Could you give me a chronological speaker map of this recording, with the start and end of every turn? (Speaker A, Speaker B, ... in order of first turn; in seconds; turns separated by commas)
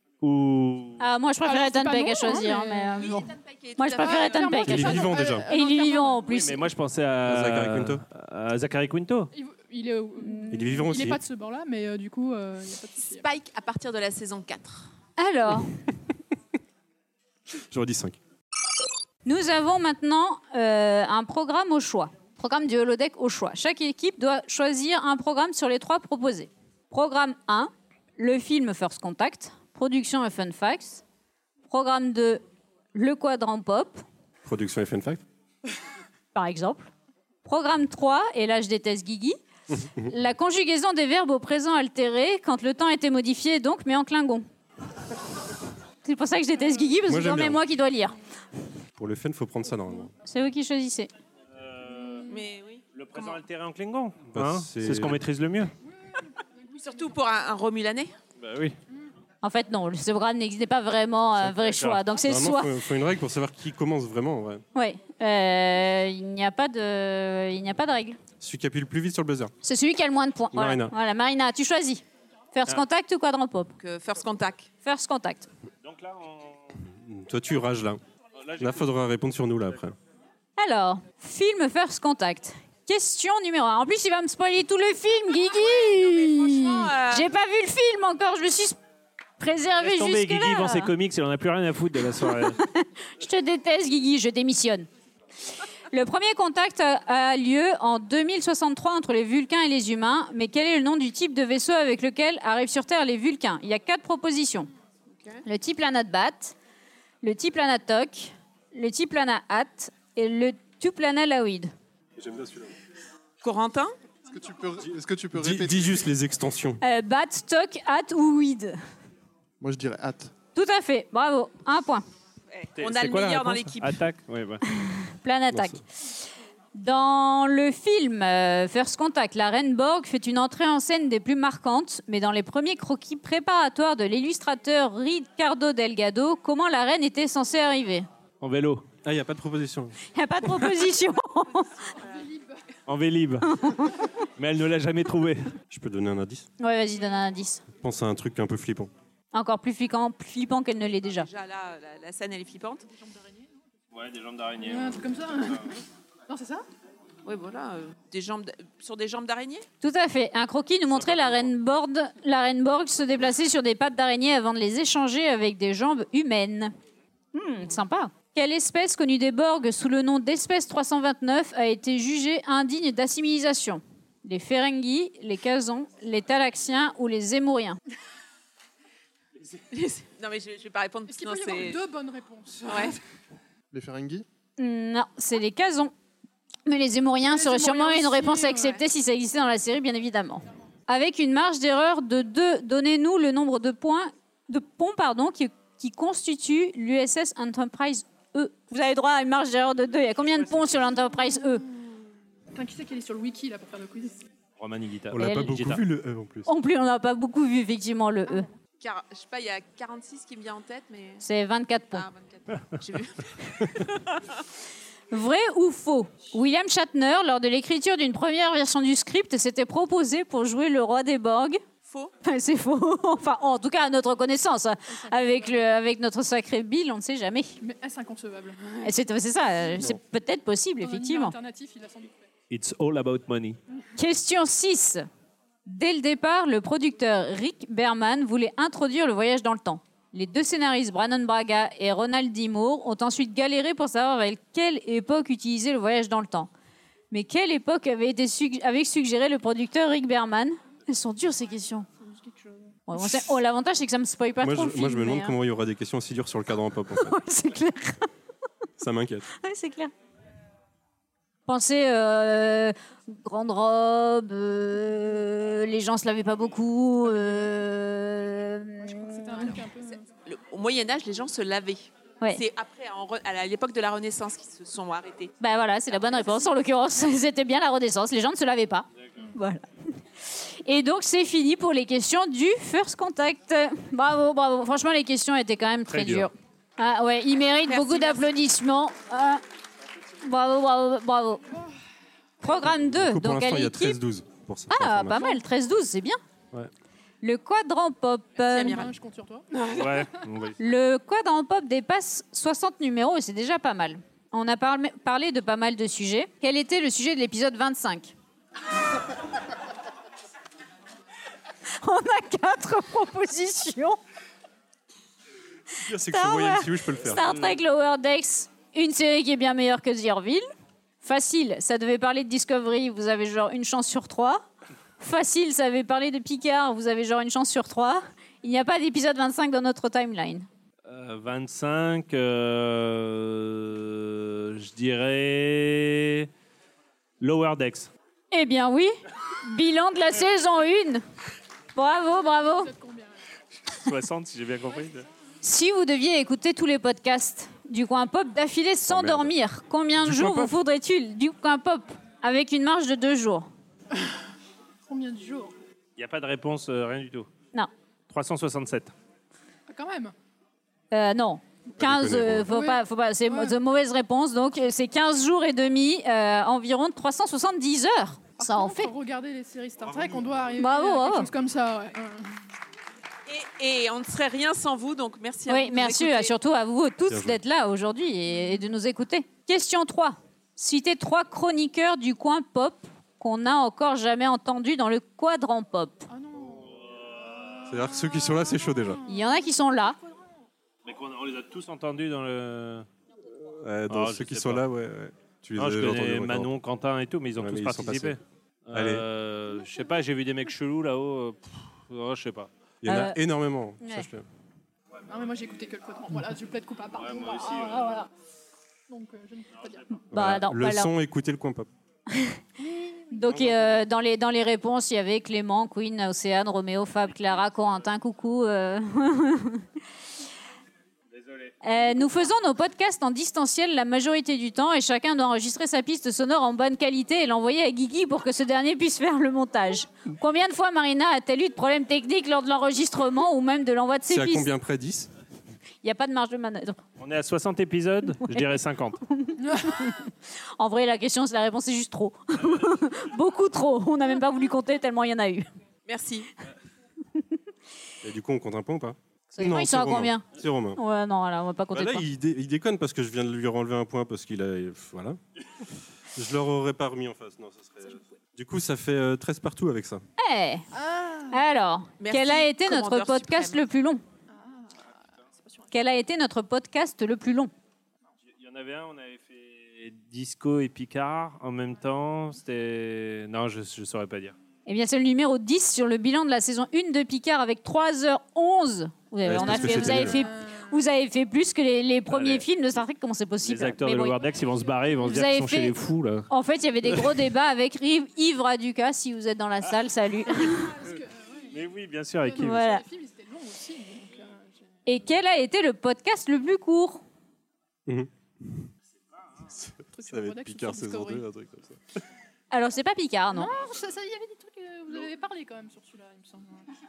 Speaker A: 0.2-1.1, Speaker B: 1.0-6.7, Speaker C: 1.4-3.3, Speaker D: 3.0-4.9, Speaker C: 4.0-6.3, Speaker E: 4.7-5.5, Speaker A: 6.3-9.3, Speaker E: 7.2-8.0, Speaker C: 9.3-13.3, Speaker B: 10.2-10.8, Speaker E: 10.5-11.2, Speaker D: 13.1-14.9, Speaker B: 15.2-15.7, Speaker E: 17.7-18.2, Speaker B: 19.2-31.0, Speaker B: 31.6-32.4, Speaker B: 32.9-34.0, Speaker E: 34.4-35.2, Speaker B: 36.4-36.9, Speaker B: 37.5-39.4, Speaker E: 39.7-40.1, Speaker B: 40.0-44.5, Speaker B: 46.0-48.2, Speaker E: 47.1-47.6, Speaker E: 49.0-50.1, Speaker B: 50.2-51.1, Speaker A: 51.6-52.3, Speaker C: 51.9-52.5, Speaker D: 52.3-53.4, Speaker A: 52.9-55.7, Speaker E: 54.3-55.2, Speaker C: 56.1-57.1, Speaker D: 56.8-58.1, Speaker A: 58.4-58.8, Speaker B: 59.4-62.7, Speaker A: 61.4-62.0, Speaker E: 62.2-64.6, Speaker B: 64.8-68.2, Speaker E: 68.4-69.5, Speaker B: 69.6-72.0, Speaker E: 70.5-70.9, Speaker B: 72.5-73.7, Speaker D: 73.8-74.7, Speaker B: 74.8-75.5, Speaker A: 75.8-76.7, Speaker E: 76.9-78.0, Speaker A: 78.4-78.8, Speaker E: 78.6-80.0, Speaker B: 80.6-88.8, Speaker D: 86.4-87.3, Speaker B: 89.4-90.9, Speaker A: 89.8-92.6, Speaker B: 92.6-94.9, Speaker B: 95.9-104.7, Speaker D: 105.1-105.4, Speaker B: 105.5-106.5, Speaker B: 107.2-111.7, Speaker E: 112.2-112.7, Speaker D: 113.4-114.0, Speaker F: 114.3-116.1, Speaker E: 115.3-116.8, Speaker B: 116.8-118.8, Speaker F: 119.6-120.3, Speaker B: 120.5-122.0, Speaker D: 122.5-124.0, Speaker A: 122.8-124.6, Speaker B: 124.7-125.8, Speaker E: 125.5-125.8, Speaker B: 126.8-138.1, Speaker A: 138.4-138.9, Speaker E: 139.0-140.0, Speaker B: 140.1-141.9, Speaker C: 141.8-142.6, Speaker A: 142.9-143.7, Speaker B: 143.4-144.1, Speaker A: 144.4-145.5, Speaker E: 145.7-146.5, Speaker B: 146.6-147.6, Speaker E: 147.8-148.9, Speaker B: 149.3-151.3, Speaker D: 151.1-152.9, Speaker C: 152.9-153.5, Speaker A: 153.9-155.1, Speaker C: 154.6-156.7, Speaker D: 157.2-159.7, Speaker B: 159.8-166.7, Speaker A: 160.9-161.5, Speaker B: 167.3-177.8, Speaker D: 179.7-181.8, Speaker C: 181.1-183.0, Speaker D: 182.7-183.0, Speaker F: 183.7-184.2, Speaker B: 184.6-185.9, Speaker B: 186.7-201.7, Speaker C: 187.2-188.8, Speaker A: 200.4-200.7, Speaker C: 202.5-204.2, Speaker A: 204.6-205.8, Speaker E: 205.1-206.5, Speaker B: 205.2-205.6, Speaker B: 206.5-208.5, Speaker D: 208.8-211.2, Speaker B: 211.2-212.1, Speaker D: 211.9-214.4, Speaker B: 215.1-221.6, Speaker D: 221.9-222.1, Speaker B: 222.2-227.6, Speaker C: 224.9-225.5, Speaker C: 227.6-228.9, Speaker B: 228.8-231.3, Speaker C: 230.8-232.3, Speaker A: 232.5-233.6, Speaker B: 234.0-235.1, Speaker B: 235.7-246.5, Speaker B: 247.1-251.9, Speaker C: 252.0-252.7, Speaker B: 252.9-255.4, Speaker E: 254.4-257.2, Speaker B: 256.9-258.1, Speaker E: 258.8-259.3, Speaker B: 259.3-259.9, Speaker B: 261.5-269.6, Speaker C: 268.8-270.1, Speaker D: 270.2-275.3, Speaker B: 275.4-289.4, Speaker A: 285.9-286.3, Speaker D: 287.7-288.3, Speaker B: 290.2-291.5, Speaker B: 292.4-294.0, Speaker E: 292.6-295.3, Speaker B: 294.7-296.2, Speaker B: 297.2-298.9, Speaker D: 298.5-298.9, Speaker C: 298.7-299.8, Speaker D: 299.6-299.9, Speaker A: 299.7-300.6, Speaker B: 300.6-308.1, Speaker B: 311.8-314.0, Speaker E: 315.8-317.4, Speaker B: 316.1-320.4, Speaker B: 321.0-324.4, Speaker B: 325.0-330.5, Speaker A: 330.9-336.3, Speaker A: 337.2-337.9, Speaker B: 338.3-341.1, Speaker B: 341.8-342.7, Speaker C: 342.2-343.2, Speaker A: 343.7-345.1, Speaker B: 345.4-353.5, Speaker E: 348.9-349.3, Speaker A: 350.0-350.5, Speaker C: 354.9-355.6, Speaker A: 356.0-357.3, Speaker A: 358.1-358.9, Speaker C: 359.7-360.1, Speaker B: 360.9-368.9, Speaker E: 361.8-362.5, Speaker C: 362.5-363.6, Speaker C: 368.4-372.4, Speaker E: 369.9-370.2, Speaker B: 370.6-371.3, Speaker D: 373.3-376.3, Speaker B: 375.5-386.1, Speaker E: 377.1-377.4, Speaker C: 386.1-386.8, Speaker A: 386.6-387.6, Speaker C: 387.3-390.3, Speaker E: 387.7-389.0, Speaker B: 389.1-390.0, Speaker A: 390.9-392.9, Speaker E: 393.4-396.5, Speaker A: 393.9-394.6, Speaker A: 395.6-402.5, Speaker E: 397.4-398.2, Speaker E: 398.7-399.1, Speaker E: 402.8-404.2, Speaker B: 402.9-403.2, Speaker B: 403.8-404.1, Speaker C: 405.1-408.1, Speaker A: 407.0-407.9, Speaker C: 408.9-410.0, Speaker B: 410.1-410.9, Speaker E: 410.1-411.7, Speaker B: 412.1-412.4, Speaker C: 412.6-413.2, Speaker B: 413.1-419.7, Speaker E: 413.3-413.8, Speaker A: 421.2-421.5, Speaker B: 421.6-434.5, Speaker E: 434.1-435.1, Speaker B: 435.8-436.8, Speaker A: 437.0-439.0, Speaker B: 438.2-438.5, Speaker B: 439.1-445.5, Speaker C: 439.4-439.9, Speaker D: 445.9-446.3, Speaker E: 448.0-450.8, Speaker B: 449.3-452.1, Speaker E: 451.7-455.2, Speaker E: 456.1-460.0, Speaker B: 460.2-460.7, Speaker C: 460.7-461.4, Speaker B: 461.3-464.0, Speaker D: 462.0-463.6, Speaker C: 464.3-464.9, Speaker B: 465.7-467.5, Speaker A: 468.3-474.4, Speaker B: 474.7-484.2, Speaker E: 479.2-480.2, Speaker C: 479.6-480.8, Speaker A: 482.1-482.5, Speaker A: 483.4-486.3, Speaker B: 485.0-485.8, Speaker B: 486.3-490.8, Speaker A: 486.9-487.1, Speaker C: 490.4-491.6, Speaker A: 490.4-491.0, Speaker A: 491.5-492.6, Speaker C: 492.2-494.7, Speaker B: 492.4-492.8, Speaker B: 494.9-497.0, Speaker E: 497.9-498.7, Speaker E: 499.5-501.8, Speaker C: 499.9-501.2, Speaker B: 502.5-503.5, Speaker C: 503.3-506.7